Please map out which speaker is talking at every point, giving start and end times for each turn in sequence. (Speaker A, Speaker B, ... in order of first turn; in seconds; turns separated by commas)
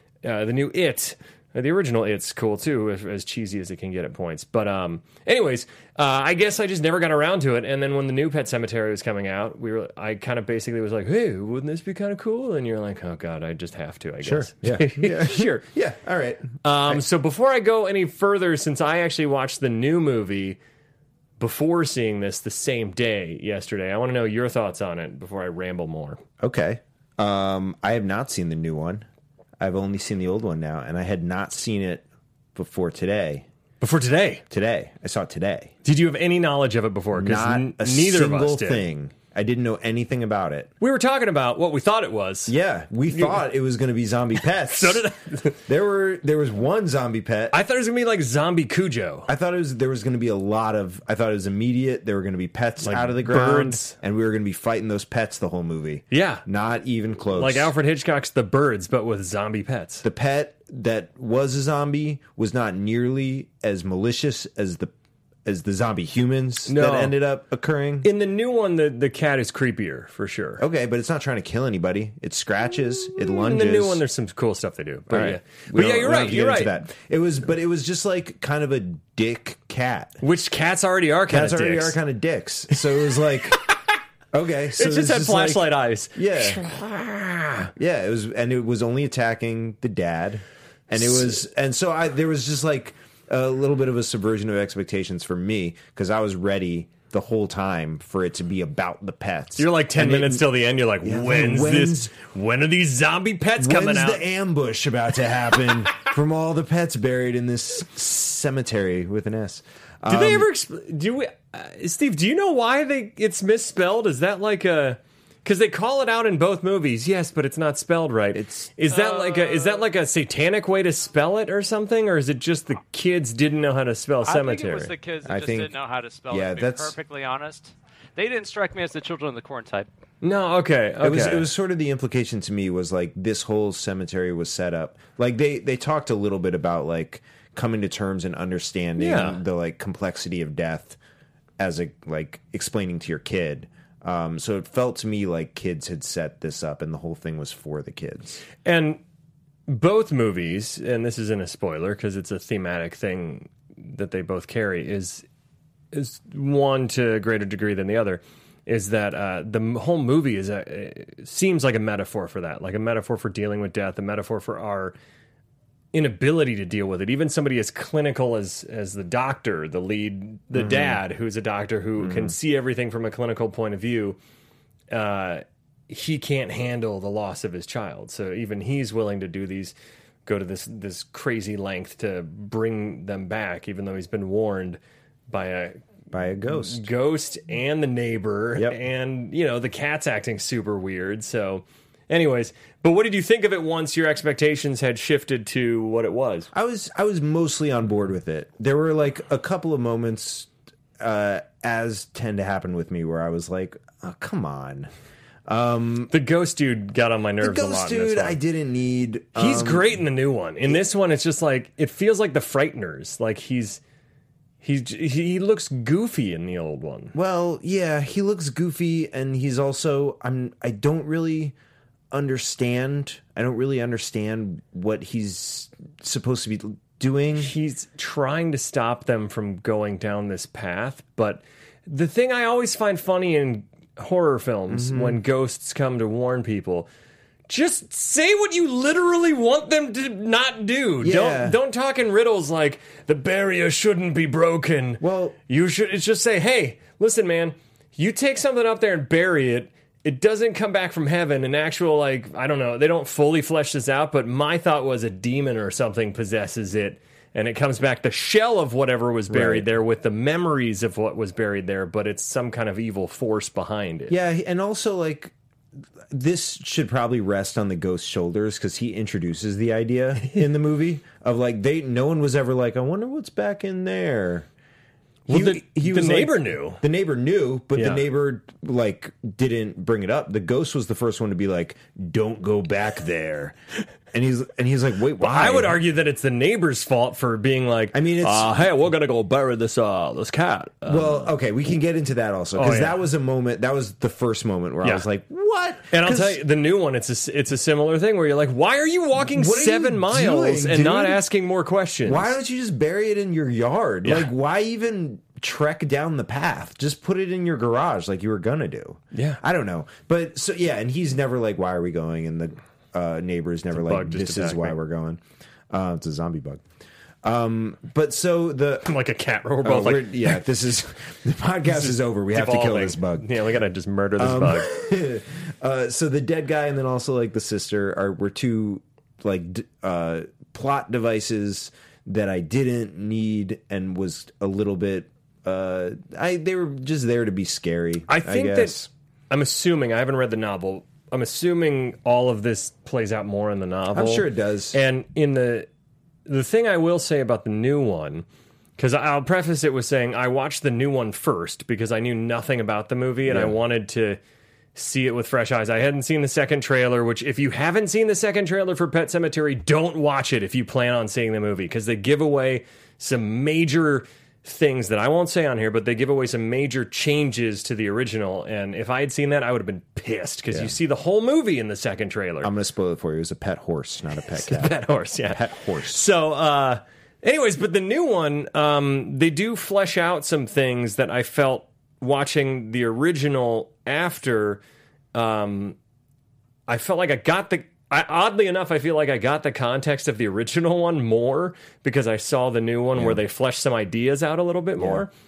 Speaker A: 0.2-15.5, Speaker B: 14.2-17.0, Speaker A: 16.6-20.6, Speaker A: 21.4-26.2, Speaker B: 26.4-29.1, Speaker B: 29.6-33.5, Speaker A: 33.8-34.4, Speaker B: 34.5-35.7, Speaker A: 35.8-38.9, Speaker B: 37.1-40.7, Speaker A: 40.8-42.5, Speaker B: 42.5-45.0, Speaker A: 43.1-43.4, Speaker A: 44.6-45.6, Speaker B: 45.7-47.6, Speaker A: 47.5-49.3, Speaker B: 49.3-57.7, Speaker A: 52.8-53.9, Speaker A: 56.1-56.4, Speaker A: 57.3-60.0, Speaker B: 60.0-64.9, Speaker B: 65.4-68.1, Speaker A: 66.6-67.2, Speaker A: 68.0-70.6, Speaker B: 70.6-74.0, Speaker A: 73.2-76.7, Speaker B: 75.1-80.2, Speaker A: 80.2-82.0, Speaker B: 81.3-83.6, Speaker A: 82.8-83.8, Speaker B: 84.3-86.6, Speaker A: 84.8-87.7, Speaker B: 87.8-102.1, Speaker A: 99.6-104.2, Speaker B: 103.6-110.5, Speaker A: 110.1-124.9, Speaker B: 118.3-118.7, Speaker C: 118.9-119.9, Speaker C: 124.2-129.9, Speaker B: 125.2-125.7, Speaker B: 126.3-127.0, Speaker A: 130.2-131.5, Speaker B: 131.0-141.0, Speaker A: 139.0-139.4, Speaker B: 141.6-148.4, Speaker A: 148.6-149.0, Speaker A: 149.7-155.2, Speaker A: 155.9-164.9, Speaker A: 165.9-174.2, Speaker B: 170.5-171.0, Speaker B: 172.0-172.3, Speaker A: 174.9-179.7, Speaker A: 180.2-185.8, Speaker B: 186.1-186.8, Speaker A: 186.4-196.5, Speaker B: 196.5-204.9, Speaker B: 205.5-206.1, Speaker A: 206.1-208.4, Speaker B: 207.4-210.0, Speaker A: 209.3-213.8, Speaker A: 214.6-217.1, Speaker B: 217.1-221.5, Speaker B: 222.1-227.5, Speaker A: 227.4-236.9, Speaker B: 234.7-235.2, Speaker A: 237.5-264.1, Speaker B: 241.0-241.6, Speaker B: 245.0-245.3, Speaker B: 259.3-259.7, Speaker B: 264.1-265.3, Speaker B: 266.1-274.5, Speaker A: 275.3-276.8, Speaker B: 275.3-283.6, Speaker A: 277.8-278.0, Speaker B: 284.1-285.8, Speaker A: 285.2-291.3, Speaker B: 287.9-288.6, Speaker B: 290.9-296.4, Speaker A: 292.6-293.0, Speaker A: 295.9-302.3, Speaker B: 299.2-301.2, Speaker B: 302.1-316.6, Speaker A: 304.0-304.3, Speaker A: 309.1-309.4, Speaker A: 313.7-314.8, Speaker B: 317.2-318.9, Speaker A: 318.8-320.4, Speaker B: 319.6-323.3, Speaker A: 321.7-324.7, Speaker B: 324.2-338.9, Speaker A: 338.1-338.8, Speaker A: 339.3-345.7, Speaker B: 343.9-344.8, Speaker A: 346.3-348.2, Speaker A: 348.8-354.2, Speaker B: 353.2-353.6, Speaker A: 354.7-372.5, Speaker B: 372.4-376.0, Speaker A: 374.3-384.6, Speaker A: 385.1-385.8, Speaker A: 386.7-395.1, Speaker B: 392.9-393.2, Speaker B: 394.8-395.1